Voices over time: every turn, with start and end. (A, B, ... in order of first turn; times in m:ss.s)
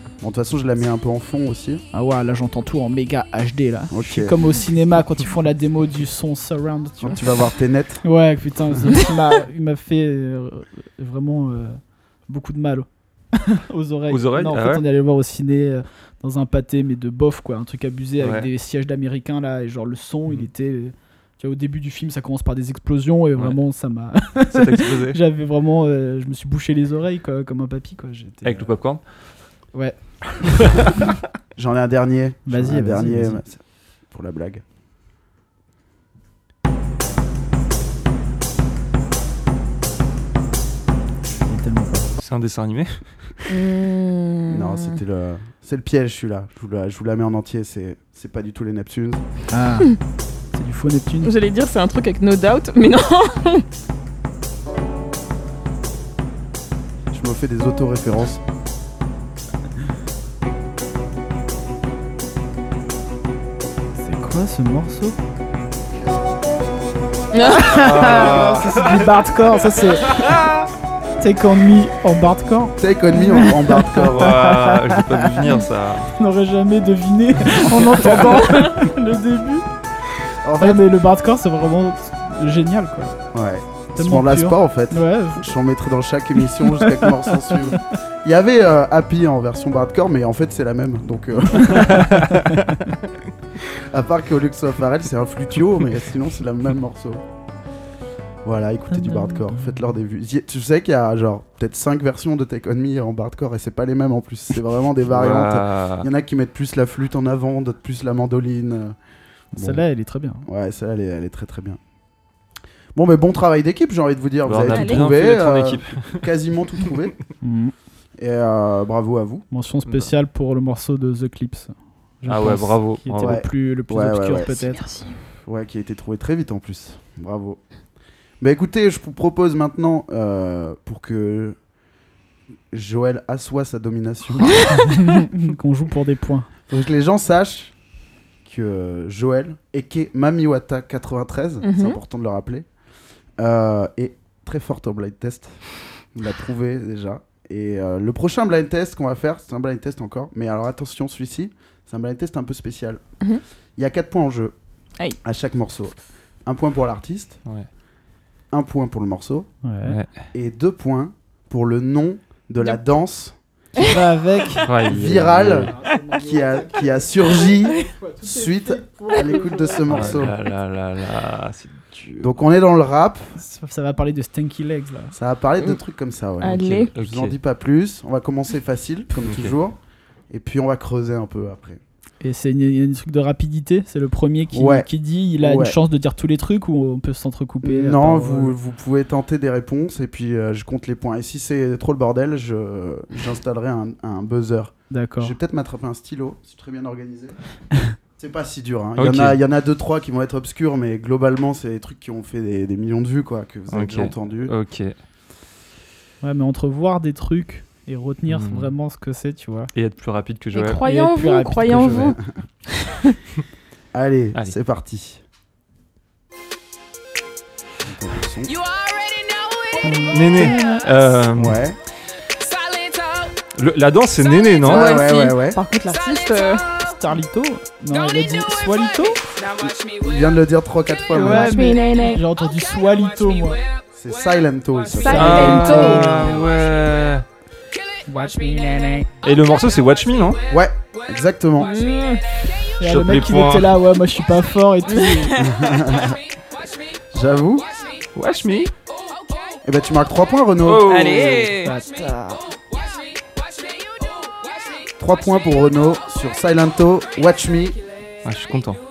0:00.2-0:01.8 A
0:01.9-0:07.2 B
0:03.9-0:04.4 A
0:07.0-0:08.0 A
0:08.0-0:28.7 B
0:14.1-0:14.8 C
0:18.2-0:18.5 C
0:24.5-0:25.2 C
0:28.4-0:29.0 C
0:29.7-0:30.9 B
0:31.6-0:34.6 A
0:32.5-0:33.4 B
0:41.3-0:42.1 B
0:42.2-0:43.0 C
0:43.5-0:45.0 D
0:44.5-0:49.2 A
0:49.5-0:50.0 B
0:50.5-0:51.3 B
0:51.2-0:53.6 D
0:57.1-0:58.4 A
1:04.0-1:05.2 B
1:07.3-1:07.8 D
1:07.5-1:10.4 B
1:07.7-1:09.2 C
1:10.1-1:10.6 C
1:11.2-1:15.4 B
1:12.8-1:14.4 A
1:14.0-1:16.1 C
1:16.2-1:19.7 B
1:17.7-1:18.0 A
1:20.4-1:20.9 A
1:20.6-1:23.2 B
1:23.3-1:32.4 A
1:24.0-1:25.6 B
1:26.8-1:27.5 B
1:31.8-1:32.3 B
1:33.6-1:37.2 A
1:38.4-1:49.0 A
1:38.9-1:39.8 B
1:45.1-1:46.1 C
1:49.5-1:49.8 A
1:49.5-1:50.5 B
1:50.5-1:51.8 A
1:53.0-1:57.2 A
1:54.5-1:56.2 C
1:54.7-1:55.1 D
1:57.4-1:57.7 B
1:58.2-1:59.4 A
1:59.5-2:01.7 B
2:02.2-2:04.9 B
2:02.3-2:03.4 C
2:03.2-2:04.6 A
2:04.5-2:05.2 D
2:05.4-2:07.6 A
2:08.4-2:11.6 A
2:12.7-2:14.7 A
2:14.8-2:16.5 B
2:16.7-2:17.7 A
2:18.4-2:22.7 A
2:21.6-2:22.0 D
2:23.4-2:33.0 A
2:33.8-2:34.6 A
2:35.2-2:37.4 A
2:38.5-2:39.5 A
2:39.6-2:40.0 B
2:39.8-2:40.1 C
2:40.3-2:43.3 A
2:43.8-2:44.7 B
2:44.6-2:45.7 C
2:44.8-2:50.3 A
2:45.5-2:47.1 B
2:47.7-2:50.3 B
2:49.9-2:52.3 C
2:52.2-2:53.3 A
2:53.4-2:55.2 B
2:55.1-2:59.8 A
2:56.4-2:56.9 D
2:56.9-2:57.4 C
2:59.2-2:59.6 C
3:00.3-3:01.8 A
3:02.2-3:08.6 B
3:04.5-3:05.8 A
3:07.6-3:17.4 A
3:14.9-3:15.4 B
3:18.2-3:24.5 A
3:19.0-3:19.4 C
3:23.7-3:24.9 C
3:26.2-3:29.7 B
3:28.3-3:28.7 C
3:29.7-3:30.8 C
3:30.5-3:32.2 D
3:30.8-3:32.1 B
3:31.7-3:32.2 A
3:33.9-3:35.2 A
3:37.8-3:38.6 A
3:39.8-3:40.8 B
3:40.1-3:41.6 C
3:41.3-3:41.8 A
3:43.6-3:45.0 C
3:44.6-3:45.6 A
3:44.7-3:46.6 D
3:46.8-3:49.2 B
3:49.6-3:51.6 A
3:51.1-3:53.6 B
3:51.2-3:52.2 D
3:54.0-3:55.8 A
3:54.9-3:56.1 D
3:55.0-3:56.4 B
3:55.2-3:57.3 C
3:58.1-3:59.1 B
3:59.2-4:00.4 C
4:00.5-4:01.7 A
4:01.6-4:02.2 D
4:02.8-4:05.4 B
4:02.8-4:03.8 C
4:04.9-4:05.8 D
4:05.4-4:06.2 A
4:07.1-4:07.7 A
4:08.2-4:08.7 C
4:09.6-4:11.0 A
4:10.6-4:11.5 C
4:10.9-4:11.8 D
4:11.6-4:12.4 B
4:15.0-4:17.8 A
4:18.2-4:18.8 C